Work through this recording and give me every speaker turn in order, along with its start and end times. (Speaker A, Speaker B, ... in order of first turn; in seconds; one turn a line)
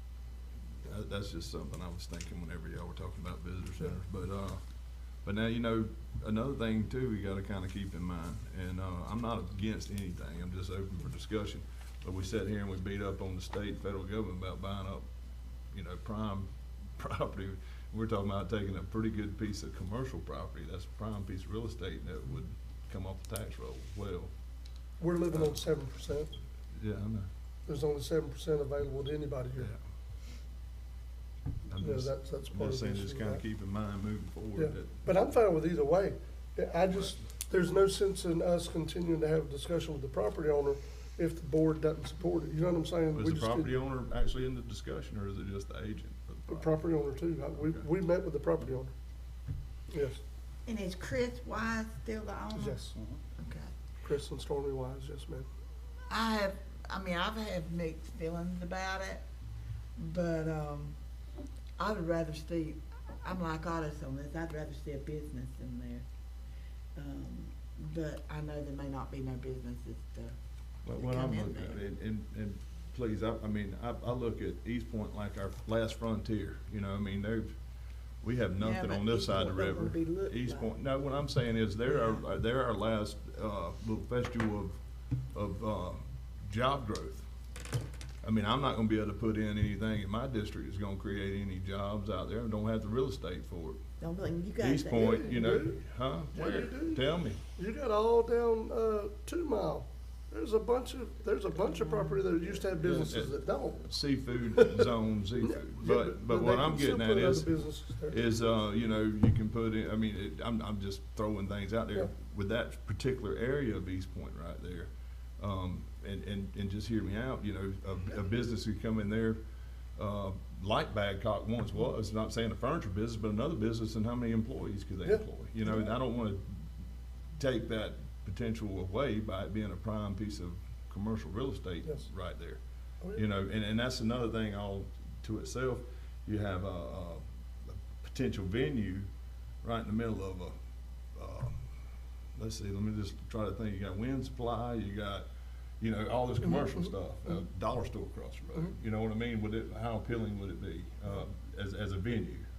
Speaker A: 0.8-15.1
Speaker A: 15.7-24.3
Speaker B: 25.0-26.3
Speaker A: 25.3-25.6
Speaker A: 26.8-27.3
Speaker B: 27.7-29.7
Speaker A: 31.7-35.0
Speaker B: 31.8-33.4
Speaker B: 34.6-43.8
Speaker A: 43.1-46.8
Speaker B: 46.5-48.9
Speaker A: 47.6-47.9
Speaker B: 49.9-50.2
Speaker C: 50.7-53.7
Speaker B: 52.5-53.0
Speaker B: 54.0-55.5
Speaker C: 56.1-59.2
Speaker C: 60.0-61.0
Speaker C: 61.8-66.0
Speaker C: 67.0-70.4
Speaker A: 70.8-77.5
Speaker C: 70.9-71.8
Speaker A: 78.2-84.8
Speaker C: 78.6-80.7
Speaker C: 81.9-82.2
Speaker A: 85.3-87.3
Speaker A: 88.2-93.8
Speaker C: 94.0-95.6
Speaker A: 94.6-97.4
Speaker B: 95.0-103.9
Speaker A: 102.8-119.4
Speaker B: 104.5-104.8
Speaker B: 105.5-108.3
Speaker A: 120.0-126.5
Speaker B: 125.0-125.9
Speaker A: 127.4-132.6
Speaker A: 133.1-139.1
Speaker A: 139.6-140.6
Speaker A: 141.2-141.6
Speaker A: 142.3-145.3
Speaker A: 145.8-152.4
Speaker B: 146.4-146.9